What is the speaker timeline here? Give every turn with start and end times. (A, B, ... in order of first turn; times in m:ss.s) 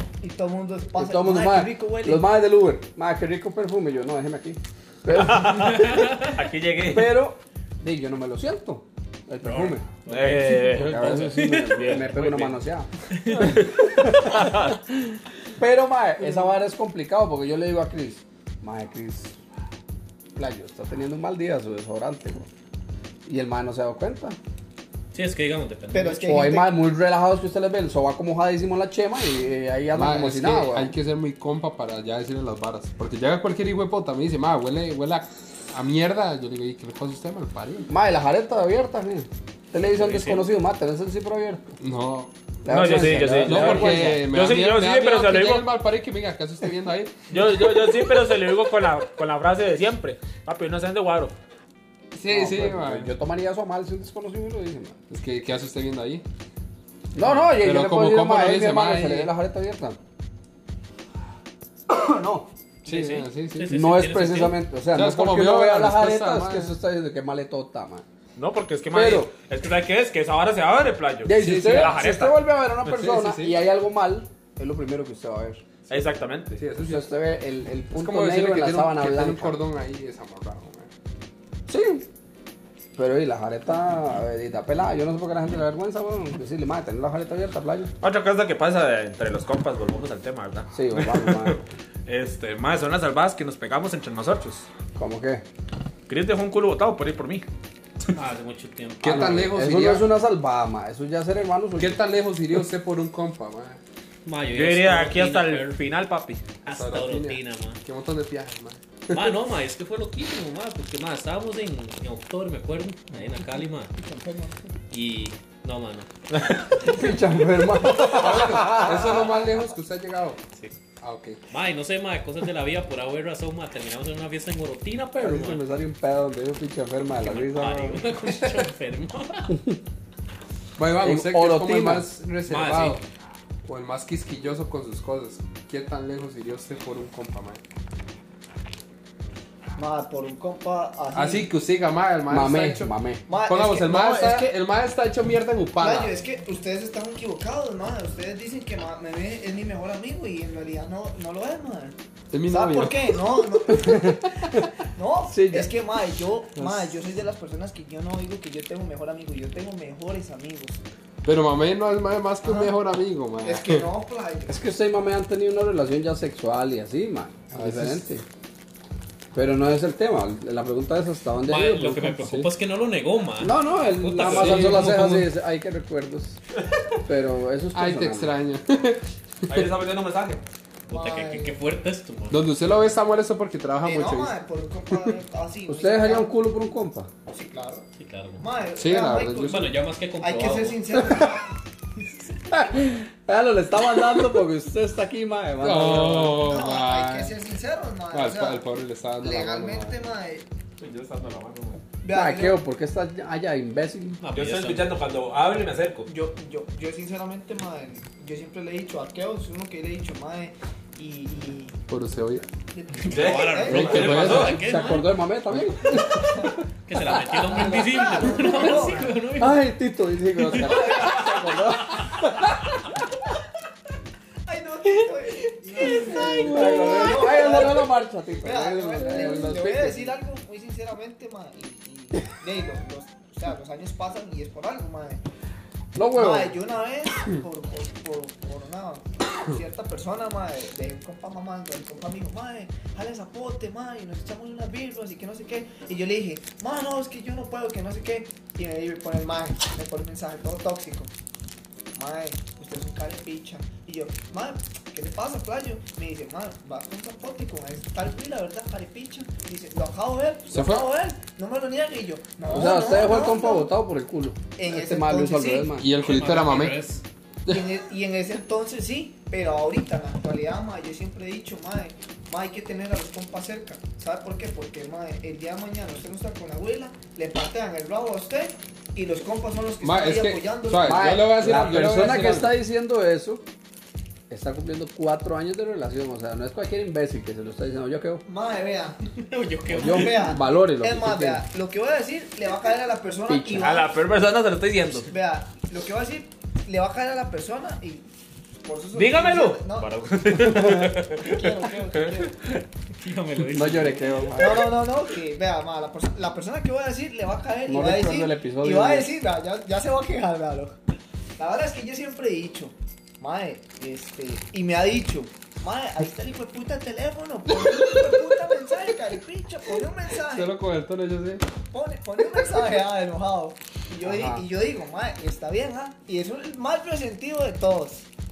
0:00.2-0:02.3 A
0:01.0-0:06.0 B
0:05.1-0:07.1 C
0:05.8-0:06.3 D
0:06.8-0:09.8 B
0:09.7-0:12.1 D
0:10.1-0:12.6 C
0:10.7-0:14.7 B
0:13.1-0:13.6 D
0:13.4-0:14.8 C
0:15.6-0:19.4 B
0:20.4-0:22.5 B
0:23.2-0:24.4 B
0:25.1-0:26.3 D
0:25.9-0:26.7 A
0:26.2-0:30.9 B
0:29.9-0:37.9 E
0:37.9-0:41.7 B
0:39.8-0:40.4 D
0:41.8-0:42.3 E
0:42.6-0:44.2 B
0:42.7-0:45.7 C
0:42.9-0:47.1 E
0:47.3-0:51.3 C
0:52.1-0:53.1 E
0:52.3-0:55.0 B
0:55.1-0:56.2 E
0:57.1-1:00.0 B
0:57.2-0:59.3 E
1:01.9-1:02.5 B
1:02.8-1:03.8 E
1:02.9-1:04.6 D
1:03.7-1:08.0 B
1:04.9-1:06.7 E
1:08.4-1:12.4 C
1:08.9-1:09.3 B
1:11.2-1:15.6 B
1:11.4-1:12.0 E
1:12.9-1:13.6 E
1:15.9-1:16.6 C
1:16.5-1:17.1 E
1:16.8-1:19.6 B
1:17.9-1:20.9 E
1:21.7-1:22.1 B
1:23.0-1:27.9 B
1:28.0-1:34.6 C
1:30.7-1:31.6 B
1:35.0-1:35.4 B
1:36.1-1:37.4 C
1:38.1-1:39.4 D
1:39.0-1:40.1 E
1:39.0-1:42.0 B
1:41.8-1:43.8 E
1:44.2-1:45.8 D
1:44.5-1:46.4 C
1:46.6-1:47.8 D
1:46.7-1:49.4 E
1:49.1-1:53.9 D
1:53.9-1:54.7 A
1:54.9-1:56.1 D
1:56.3-1:56.7 C
1:56.8-1:59.3 B
1:57.9-2:00.4 E
2:01.0-2:01.4 E
2:01.5-2:05.6 D
2:05.2-2:08.0 B
2:07.2-2:09.6 D
2:09.5-2:09.8 B
2:10.8-2:13.0 E
2:11.0-2:12.1 B
2:12.4-2:13.0 D
2:13.6-2:17.6 E
2:19.8-2:21.5 A
2:21.1-2:26.1 E
2:22.3-2:23.2 B
2:23.3-2:24.5 A
2:25.8-2:31.9 A
2:32.3-2:33.2 E
2:32.5-2:34.3 A
2:33.7-2:34.4 B
2:34.8-2:40.8 A
2:35.3-2:35.7 B
2:41.2-2:43.9 E
2:42.4-2:42.7 A
2:43.4-2:44.6 A
2:44.5-2:48.2 B
2:47.6-2:48.0 E
2:49.3-2:52.3 B
2:51.4-2:55.3 D
2:52.2-2:52.5 E
2:53.4-2:56.4 B
2:54.2-2:55.0 E
2:57.0-2:58.3 B
2:57.7-2:59.7 E
2:59.5-3:00.4 C
3:00.9-3:01.6 A
3:00.9-3:02.4 D
3:02.3-3:04.4 E
3:03.8-3:06.3 A
3:05.7-3:07.1 B
3:07.3-3:07.8 A
3:08.0-3:08.5 D
3:08.4-3:09.7 A
3:08.8-3:09.7 E
3:09.4-3:10.8 D
3:10.2-3:11.5 A
3:12.5-3:16.4 B
3:15.6-3:17.4 E
3:16.2-3:18.6 A
3:18.1-3:20.0 E
3:19.2-3:20.4 A
3:20.8-3:21.8 C
3:22.0-3:22.6 A
3:22.1-3:24.2 B
3:24.2-3:24.9 D
3:24.3-3:26.1 C
3:26.1-3:31.8 A
3:31.9-3:32.4 E
3:32.7-3:34.1 A
3:33.0-3:35.1 D
3:33.0-3:34.5 C
3:33.7-3:34.6 E
3:34.2-3:37.7 B
3:35.5-3:36.0 E
3:36.2-3:36.6 A
3:36.8-3:39.6 D
3:37.4-3:39.2 A
3:39.3-3:42.8 B
3:40.5-3:41.0 D
3:40.5-3:41.4 A
3:44.4-3:55.2 A
3:45.8-3:46.4 D
3:45.8-3:50.2 B
3:55.9-3:56.6 B
3:56.1-4:11.1 A
4:11.9-4:23.7 A
4:20.5-4:20.9 E
4:22.5-4:25.9 B
4:24.6-4:25.7 A
4:25.8-4:26.8 E
4:26.0-4:27.0 D
4:27.5-4:41.9 A
4:39.8-4:42.6 E
4:40.8-4:43.4 B
4:44.3-4:48.2 B
4:48.2-4:49.0 A
4:49.3-4:50.3 D
4:49.7-4:51.4 B
4:49.7-4:53.9 A
4:53.3-4:53.7 B
4:53.6-4:55.1 C
4:55.1-4:58.0 A
4:58.6-4:59.9 A
4:58.9-5:01.4 C
5:00.6-5:00.8 B
5:00.6-5:02.4 A
5:03.0-5:04.3 D
5:03.5-5:04.7 B
5:04.4-5:10.8 A
5:07.7-5:09.1 B
5:11.4-5:20.5 A
5:20.2-5:21.4 E
5:21.7-5:28.1 A
5:24.0-5:24.4 B